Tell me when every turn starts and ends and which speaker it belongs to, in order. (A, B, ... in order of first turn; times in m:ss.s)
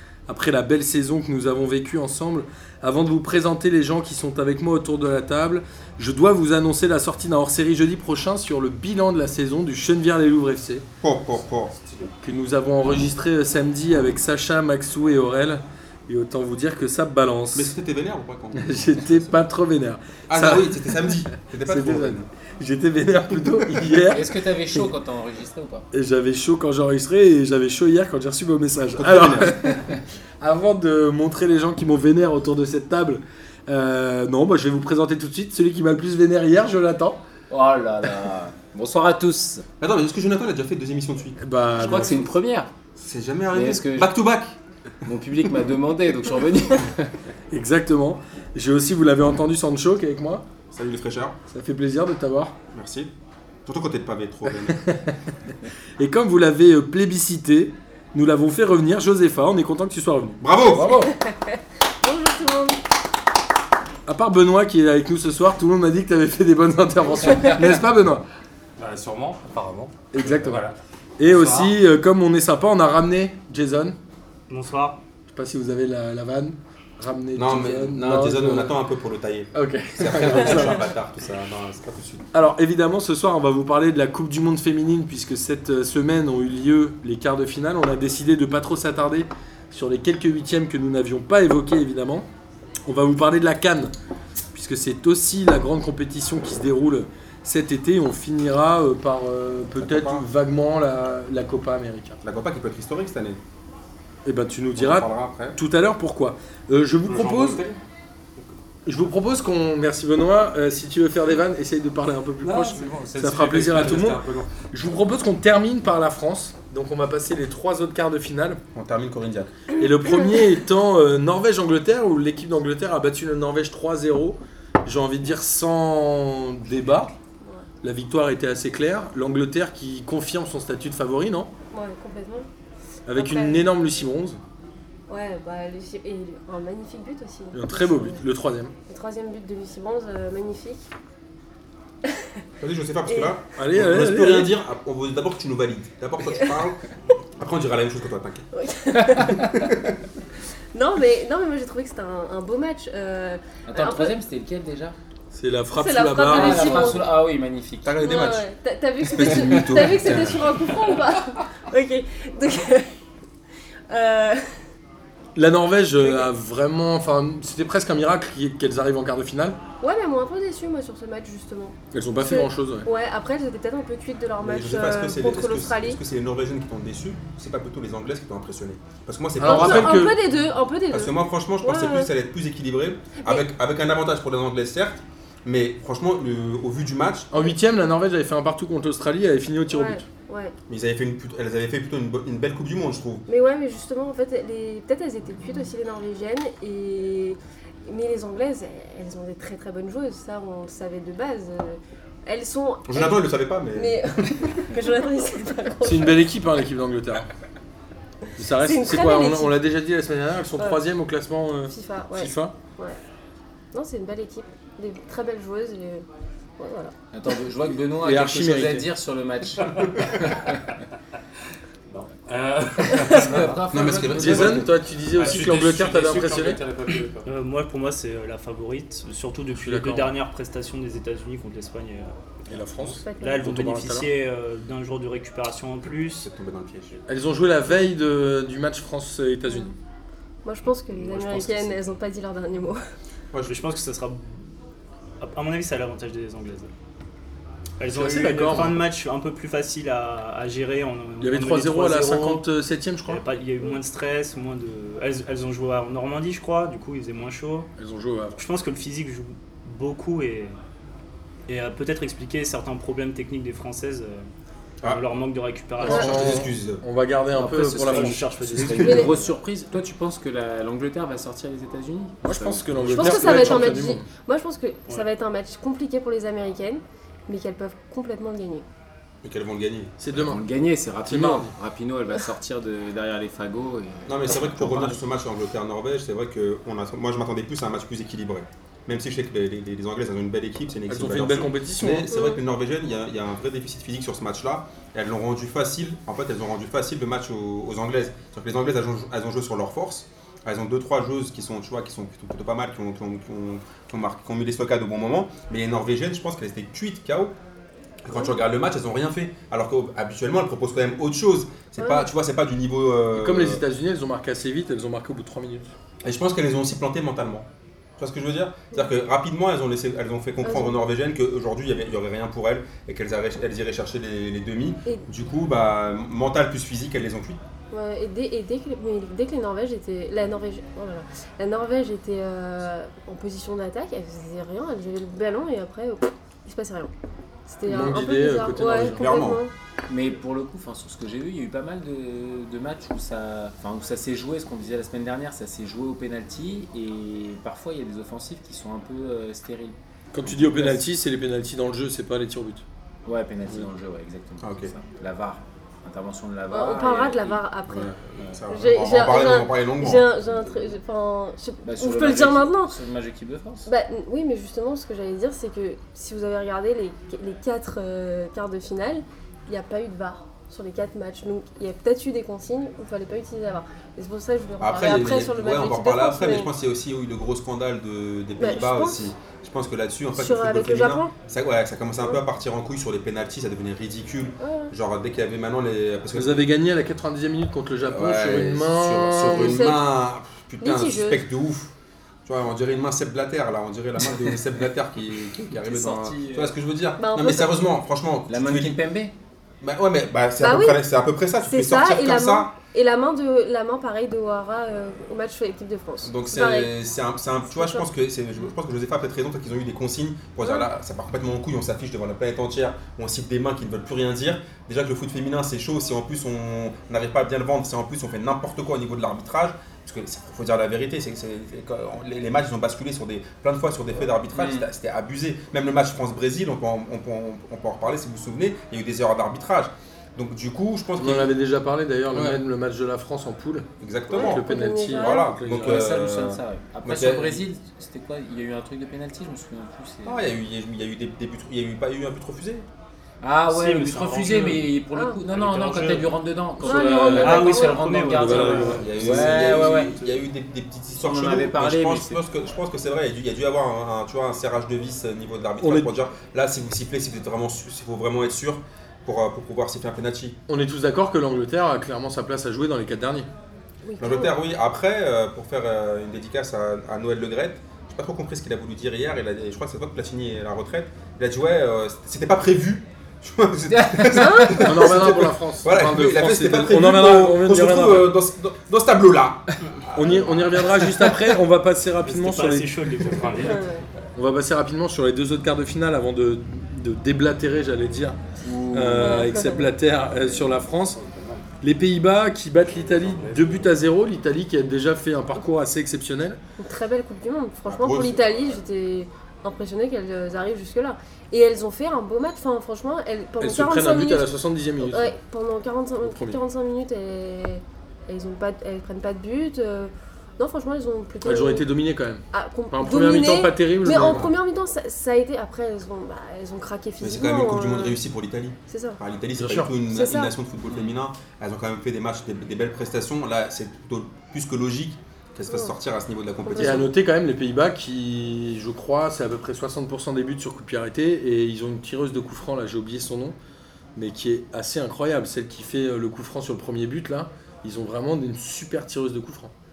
0:00.3-0:10.8 A
0:11.0-0:11.8 B
0:11.8-0:12.1 C
0:12.2-0:17.7 A
0:17.5-0:19.3 B
0:18.5-0:24.8 A
0:20.3-0:22.3 B
0:24.0-0:25.9 D
0:25.9-0:37.2 A
0:28.8-0:29.7 B
0:37.5-0:39.6 D
0:39.8-0:42.2 B
0:41.4-0:42.2 A
0:41.8-0:42.7 D
0:43.0-0:44.6 B
0:43.5-0:44.1 D
0:45.0-0:47.1 D
0:47.5-0:50.4 A
0:50.7-0:51.4 B
0:51.5-0:52.5 A
0:52.7-0:53.1 B
0:53.6-0:54.8 B
0:54.5-0:55.2 A
0:56.0-1:01.1 A
1:00.4-1:01.0 B
1:01.0-1:02.8 E
1:04.0-1:08.2 A
1:08.8-1:11.7 C
1:10.1-1:10.7 A
1:11.2-1:14.0 A
1:14.5-1:15.0 F
1:15.3-1:18.8 A
1:17.4-1:22.2 B
1:19.5-1:20.9 A
1:22.3-1:32.3 A
1:32.8-1:33.9 A
1:34.5-1:42.2 A
1:39.8-1:40.2 B
1:42.2-1:43.4 B
1:44.2-1:47.6 A
1:44.7-1:45.6 B
1:47.1-1:47.8 B
1:48.8-1:58.6 A
1:52.4-1:54.6 C
1:58.7-1:59.5 B
1:59.8-2:07.1 A
2:07.8-2:11.5 A
2:11.7-2:12.5 E
2:13.1-2:14.4 A
2:13.1-2:13.7 E
2:15.1-2:18.2 E
2:17.5-2:18.7 A
2:18.9-2:20.8 E
2:22.6-2:28.4 B
2:23.1-2:23.4 E
2:23.6-2:24.5 A
2:28.5-2:29.5 E
2:29.2-2:30.0 B
2:30.7-2:34.1 E
2:33.7-2:35.0 D
2:35.3-2:37.0 A
2:35.8-2:37.1 E
2:36.3-2:38.0 D
2:37.8-2:38.5 B
2:38.0-2:42.9 E
2:39.1-2:40.8 B
2:43.9-2:44.5 E
2:45.3-2:49.6 A
2:49.8-2:56.0 E
2:51.9-2:52.9 A
2:54.4-3:00.1 B
2:59.4-3:00.2 A
2:59.4-3:02.1 E
3:00.9-3:07.3 B
3:07.3-3:10.0 A
3:09.7-3:10.5 E
3:10.7-3:13.2 B
3:13.3-3:26.3 E
3:22.9-3:24.6 B
3:25.8-3:27.3 A
3:28.4-3:32.5 A
3:28.6-3:29.6 E
3:31.7-3:33.0 E
3:33.7-3:36.0 E
3:36.6-3:36.9 E
3:37.1-3:40.5 D
3:38.0-3:38.8 A
3:41.9-3:43.6 C
3:43.0-3:43.2 E
3:43.0-3:44.6 D
3:43.7-3:44.7 B
3:44.1-3:46.6 A
3:45.1-3:47.3 C
3:47.2-3:56.3 F
3:49.5-3:50.1 A
3:52.5-3:54.1 A
3:53.0-3:53.4 E
3:56.2-3:57.0 B
3:57.1-3:59.7 A
3:59.5-3:59.7 E
4:00.4-4:02.8 E
4:03.3-4:03.6 B
4:03.4-4:04.4 F
4:05.2-4:06.7 F
4:07.8-4:12.4 F
4:07.9-4:08.8 A
4:11.2-4:13.2 A
4:13.1-4:17.7 F
4:17.8-4:18.4 A
4:18.4-4:20.5 F
4:21.5-4:24.3 F
4:24.8-4:26.4 F
4:25.8-4:26.8 B
4:25.8-4:28.2 A
4:27.3-4:33.7 D
4:27.6-4:29.3 F
4:28.6-4:29.1 B
4:28.8-4:29.1 E
4:32.2-4:34.0 A
4:32.9-4:38.6 E
4:39.2-4:40.2 B
4:40.0-4:40.4 A
4:40.2-4:45.0 D
4:41.0-4:41.5 A
4:44.1-5:07.3 B
4:50.9-4:52.1 A
4:52.1-4:52.4 E
5:08.0-5:13.6 B
5:11.8-5:12.1 E
5:13.1-5:15.7 A
5:16.0-5:17.5 B
5:18.0-5:27.4 B
5:20.4-5:20.7 E
5:27.7-5:36.9 E
5:37.5-5:39.5 E
5:37.6-5:39.0 A
5:38.8-5:39.4 B
5:39.9-5:50.8 D
5:50.1-5:52.6 A
5:53.0-5:57.4 D
5:54.4-5:54.7 B
5:56.5-5:57.9 E
5:57.7-6:00.1 B
5:58.5-6:02.7 E
6:00.2-6:00.6 D
6:01.6-6:03.7 D
6:03.6-6:16.5 E
6:14.6-6:26.5 B
6:18.4-6:19.1 E
6:20.1-6:21.1 E
6:24.4-6:24.7 E
6:26.1-6:29.6 A
6:27.9-6:31.7 B
6:29.2-6:29.8 E
6:30.6-6:31.2 E
6:32.2-6:38.8 B
6:35.6-6:36.5 D
6:37.0-6:37.6 E
6:38.3-6:39.1 D
6:39.6-6:42.5 B
6:40.4-6:40.8 E
6:41.5-6:46.7 E
6:46.0-7:11.3 B
6:47.5-6:47.8 E
6:50.4-6:50.7 E
7:04.3-7:04.7 D
7:11.0-7:15.8 A
7:12.1-7:12.4 B
7:13.8-7:17.4 B
7:14.1-7:15.3 E
7:15.5-7:20.2 D
7:20.0-7:22.7 B
7:23.2-7:30.1 D
7:23.5-7:24.7 F
7:24.9-7:25.2 E
7:25.3-7:26.2 F
7:26.6-7:27.8 E
7:26.7-7:29.3 F
7:27.0-7:27.5 A
7:28.1-7:29.3 A
7:28.6-7:40.4 B
7:31.0-7:32.2 D
7:35.6-7:35.9 A
7:40.5-7:43.3 A
7:43.8-7:44.3 E
7:44.0-8:00.7 B
7:53.7-7:54.7 D
7:54.1-7:54.9 E
7:54.6-7:58.1 A
7:59.9-8:03.0 A
8:02.0-8:03.6 F
8:03.0-8:03.6 C
8:03.4-8:03.8 E
8:04.2-8:08.2 A
8:08.4-8:09.3 D
8:08.7-8:11.0 A
8:08.9-8:09.7 E
8:10.2-8:10.5 D
8:10.6-8:11.4 C
8:11.6-8:16.4 A
8:12.8-8:13.7 C
8:16.6-8:24.3 E
8:17.6-8:18.2 B
8:23.4-8:25.1 A
8:24.8-8:31.6 E
8:26.0-8:26.4 A
8:31.2-8:34.3 A
8:32.3-8:38.0 E
8:37.0-8:46.9 B
8:38.7-8:39.0 E
8:39.3-8:39.7 A
8:39.9-8:40.3 E
8:40.7-8:41.0 D
8:46.4-8:46.8 E
8:46.5-8:53.4 A
8:54.0-8:59.5 A